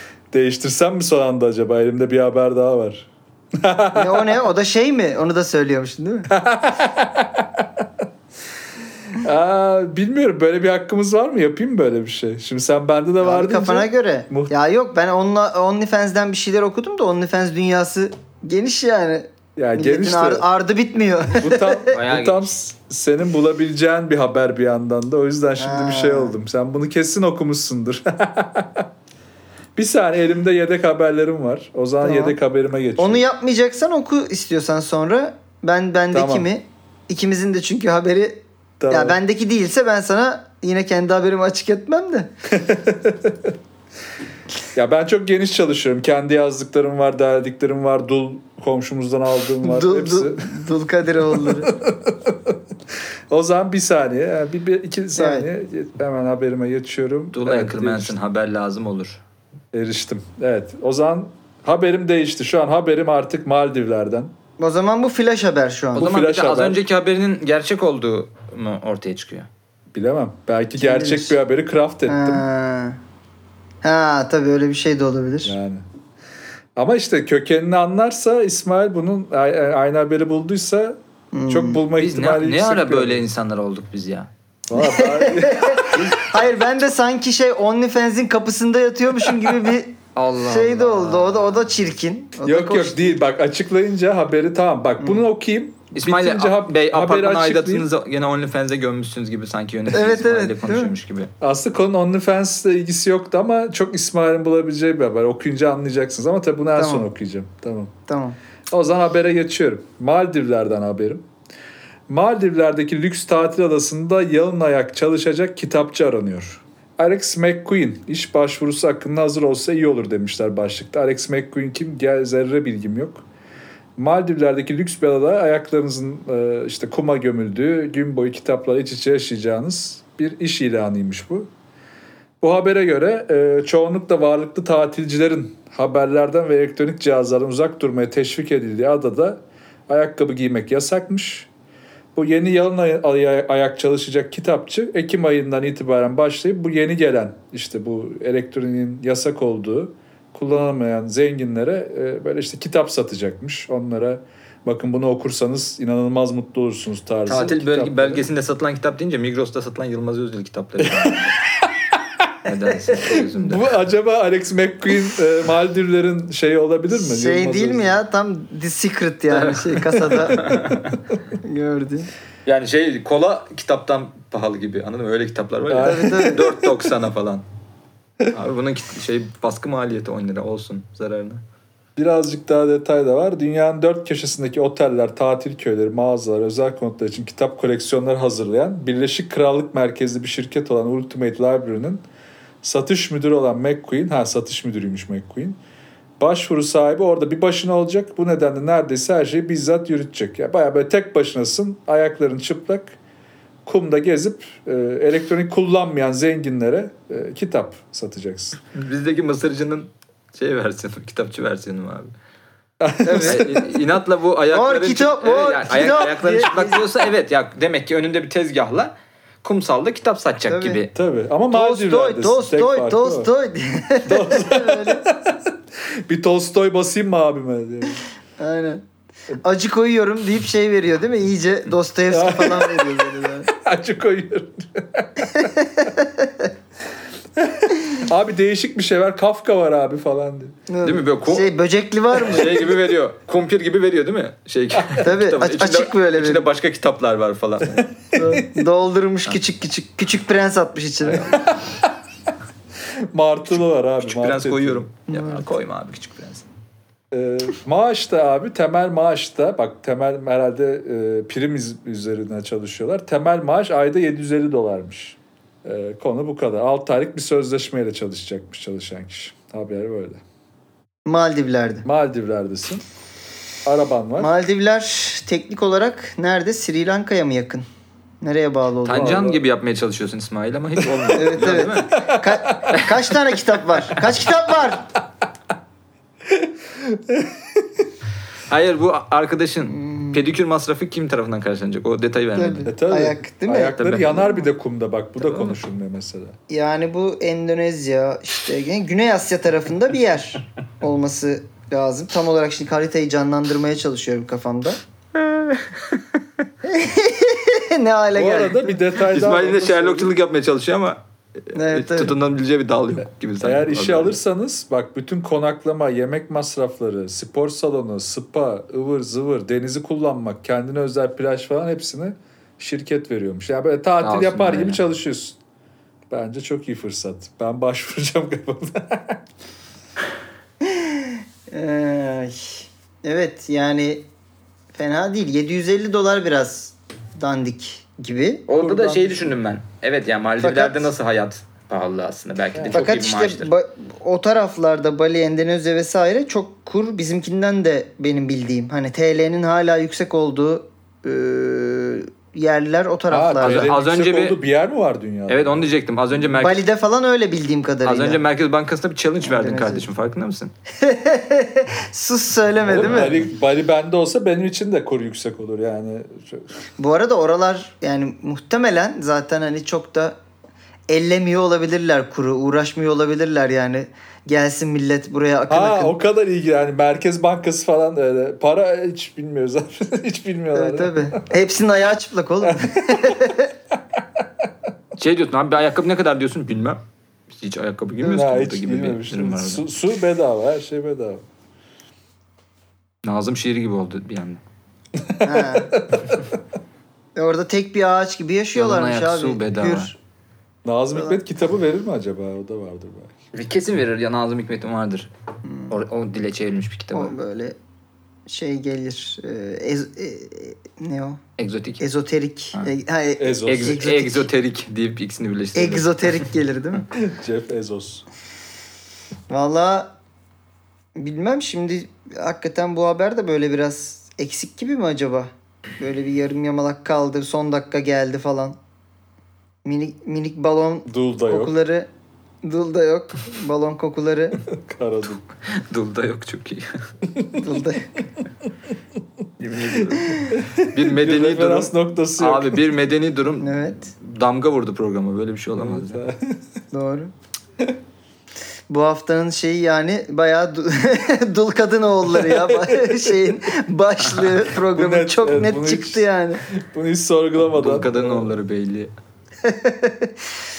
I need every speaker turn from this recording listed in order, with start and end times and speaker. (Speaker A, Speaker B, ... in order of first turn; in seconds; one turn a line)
Speaker A: 0.3-4.4
Speaker B: 3.9-6.3
Speaker A: 6.3-7.9
Speaker A: 9.1-14.5
Speaker B: 13.2-21.9
Speaker A: 19.6-20.4
Speaker A: 21.4-28.9
Speaker C: 21.9-22.4
Speaker B: 25.6-26.3
Speaker A: 29.8-33.2
Speaker B: 32.0-32.4
Speaker B: 33.0-42.3
Speaker A: 36.1-36.5
Speaker A: 38.8-39.2
Speaker A: 42.5-43.5
Speaker A: 44.7-50.6
Speaker B: 49.6-51.7
Speaker A: 51.3-52.6
Speaker A: 53.3-58.2
Speaker B: 55.1-55.5
Speaker C: 57.3-59.2
Speaker A: 59.7-64.3
Speaker B: 64.6-66.1
Speaker A: 65.9-66.8
Speaker C: 66.0-69.5
Speaker A: 69.9-72.4
Speaker B: 70.8-71.4
Speaker B: 72.0-73.0
Speaker B: 73.8-75.5
Speaker A: 75.4-75.8
Speaker A: 76.8-81.0
Speaker B: 81.3-81.8
Speaker A: 81.5-83.2
Speaker C: 82.0-84.3
Speaker A: 84.7-86.1
Speaker B: 84.8-93.2
Speaker C: 90.1-91.7
Speaker A: 92.4-97.9
Speaker C: 95.9-101.3
Speaker B: 99.9-100.9
Speaker A: 101.4-107.9
Speaker B: 106.8-107.0
Speaker B: 108.1-108.4
Speaker A: 108.7-111.2
Speaker A: 112.1-123.2
Speaker A: 124.0-131.5
Speaker A: 132.4-141.5
Speaker A: 142.1-158.2
Speaker C: 157.3-161.3
Speaker A: 160.8-161.7
Speaker C: 162.4-163.7
Speaker A: 163.0-167.9
Speaker B: 166.9-170.5
Speaker C: 169.3-171.0
Speaker B: 171.4-172.1
Speaker C: 172.4-177.4
Speaker A: 175.7-176.7
Speaker B: 175.8-176.5
Speaker C: 178.3-181.4
Speaker A: 181.9-192.0
Speaker A: 192.6-195.6
Speaker A: 196.2-202.9
Speaker A: 203.6-208.6
Speaker C: 208.7-212.1
Speaker A: 212.8-213.8
Speaker B: 213.0-213.5
Speaker C: 213.2-218.9
Speaker B: 214.5-217.0
Speaker C: 219.4-220.9
Speaker B: 220.5-220.8
Speaker A: 220.9-223.3
Speaker B: 221.5-225.1
Speaker A: 224.1-225.5
Speaker A: 226.1-228.0
Speaker B: 228.4-228.8
Speaker B: 229.4-233.5
Speaker A: 232.1-235.5
Speaker B: 235.2-236.5
Speaker A: 237.3-240.6
Speaker B: 240.7-242.7
Speaker C: 240.8-241.5
Speaker C: 242.2-247.9
Speaker B: 245.0-246.4
Speaker A: 247.7-248.6
Speaker B: 248.1-251.4
Speaker C: 251.1-251.3
Speaker A: 251.3-251.9
Speaker A: 253.1-254.8
Speaker C: 253.5-256.4
Speaker B: 255.1-255.4
Speaker A: 257.1-270.2
Speaker B: 271.1-271.9
Speaker A: 271.8-272.8
Speaker A: 273.6-274.3
Speaker B: 274.2-277.6
Speaker B: 278.2-279.2
Speaker C: 278.8-282.0
Speaker A: 278.9-279.4
Speaker A: 280.8-281.1
Speaker B: 281.1-284.9
Speaker A: 281.9-282.8
Speaker A: 286.3-287.9
Speaker C: 288.5-292.7
Speaker B: 289.6-290.2
Speaker B: 292.3-293.8
Speaker A: 292.6-296.4
Speaker C: 293.8-294.3
Speaker C: 295.2-295.6
Speaker B: 296.5-304.8
Speaker C: 305.1-306.0
Speaker B: 306.6-308.8
Speaker A: 308.1-310.1
Speaker C: 309.0-314.2
Speaker B: 311.5-312.1
Speaker A: 313.4-325.4
Speaker C: 324.0-324.8
Speaker A: 326.1-329.2
Speaker B: 330.6-334.1
Speaker B: 334.7-339.3
Speaker C: 338.5-343.5
Speaker B: 340.4-340.9
Speaker A: 342.5-342.8
Speaker B: 342.7-353.7
Speaker A: 353.1-355.7
Speaker C: 353.4-354.4
Speaker C: 355.3-356.6
Speaker B: 356.4-358.2
Speaker C: 357.8-360.5
Speaker B: 359.2-359.9
Speaker B: 360.8-363.2
Speaker A: 362.6-366.5
Speaker C: 362.8-363.2
Speaker B: 366.8-370.2
Speaker B: 370.9-375.9
Speaker A: 375.5-381.3
Speaker B: 380.5-383.5
Speaker A: 382.4-383.3
Speaker A: 383.9-384.5
Speaker C: 384.9-389.6
Speaker A: 388.0-391.2
Speaker C: 393.0-394.4
Speaker A: 394.9-396.1
Speaker B: 395.2-395.8
Speaker B: 397.1-399.9
Speaker C: 398.5-399.9
Speaker A: 400.6-403.1
Speaker C: 403.3-405.1
Speaker B: 405.4-405.7
Speaker C: 405.7-407.1
Speaker B: 406.9-407.6
Speaker B: 408.3-411.2
Speaker C: 411.4-411.8
Speaker B: 411.8-414.2
Speaker A: 413.2-413.8
Speaker C: 413.4-416.2
Speaker B: 415.5-416.8
Speaker A: 416.9-418.0
Speaker B: 419.3-419.9
Speaker B: 420.9-428.6
Speaker B: 429.6-431.9
Speaker A: 430.9-431.5
Speaker B: 432.4-434.4
Speaker A: 434.5-435.2
Speaker C: 435.4-436.7
Speaker A: 437.1-437.6
Speaker B: 437.4-438.0
Speaker C: 439.4-446.0
Speaker B: 440.0-440.4
Speaker A: 440.3-442.7
Speaker B: 443.4-443.9
Speaker A: 445.6-446.4
Speaker B: 446.7-447.1
Speaker B: 448.7-456.4
Speaker A: 452.1-453.3
Speaker A: 454.5-458.4
Speaker C: 457.5-458.9
Speaker B: 459.4-460.1